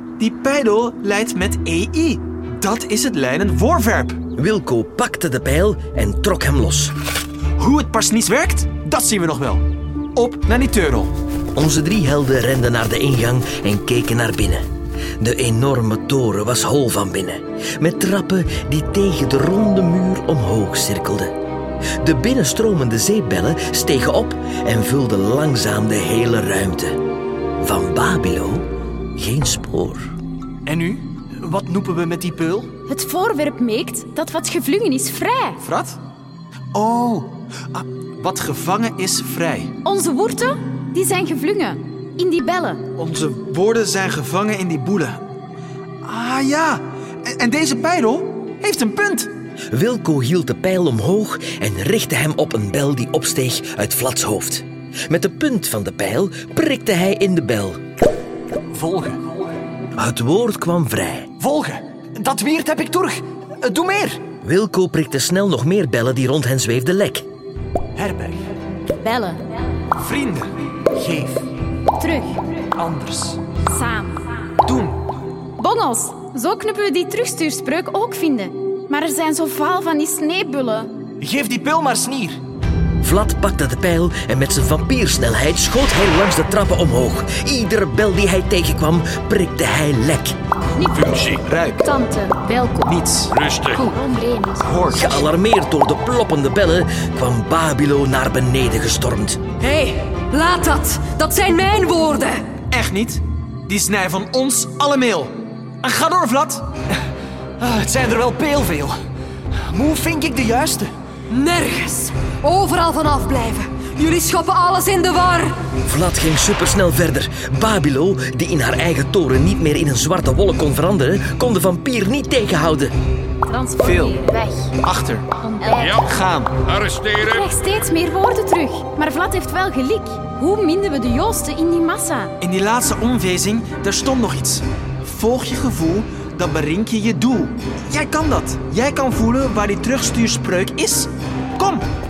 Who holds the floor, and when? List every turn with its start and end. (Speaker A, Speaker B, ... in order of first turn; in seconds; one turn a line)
Speaker A: 0.2-4.2
Speaker B: 4.3-6.9
Speaker A: 7.6-9.6
Speaker A: 10.2-11.1
Speaker B: 11.5-14.7
Speaker B: 15.2-21.3
Speaker B: 22.0-27.0
Speaker B: 27.6-30.1
Speaker C: 30.6-32.7
Speaker D: 32.9-35.6
Speaker A: 35.6-36.0
Speaker A: 36.7-39.7
Speaker D: 39.8-42.8
Speaker A: 43.0-45.2
Speaker A: 46.0-49.3
Speaker B: 49.7-57.8
Speaker C: 58.7-59.4
Speaker B: 59.9-61.3
Speaker C: 61.4-64.2
Speaker B: 64.4-67.2
Speaker C: 68.0-68.5
Speaker D: 69.0-69.4
Speaker A: 70.0-70.5
Speaker C: 70.9-71.4
Speaker D: 72.0-72.4
Speaker C: 72.8-73.4
Speaker D: 73.7-74.3
Speaker A: 74.6-75.0
Speaker D: 75.6-80.9
Speaker C: 81.2-82.4
Speaker B: 83.0-90.3
Speaker D: 90.8-91.3
Speaker A: 91.4-91.8
Speaker E: 91.8-93.0
Speaker A: 92.8-93.3
Speaker F: 93.3-93.8
Speaker E: 93.7-95.2
Speaker A: 94.6-95.1
Speaker B: 94.9-99.4
Speaker G: 99.6-102.5
Speaker A: 102.7-106.7
Speaker C: 107.6-109.0
Speaker C: 109.6-110.9
Speaker G: 111.3-115.5
Speaker B: 115.8-122.9
Speaker D: 123.5-124.5
Speaker A: 123.8-124.2
Speaker E: 124.3-124.7
Speaker A: 124.8-125.3
Speaker E: 125.4-126.0
Speaker D: 125.6-125.9
Speaker F: 125.7-127.5
Speaker A: 126.0-126.5
Speaker D: 127.2-132.3
Speaker A: 132.4-141.8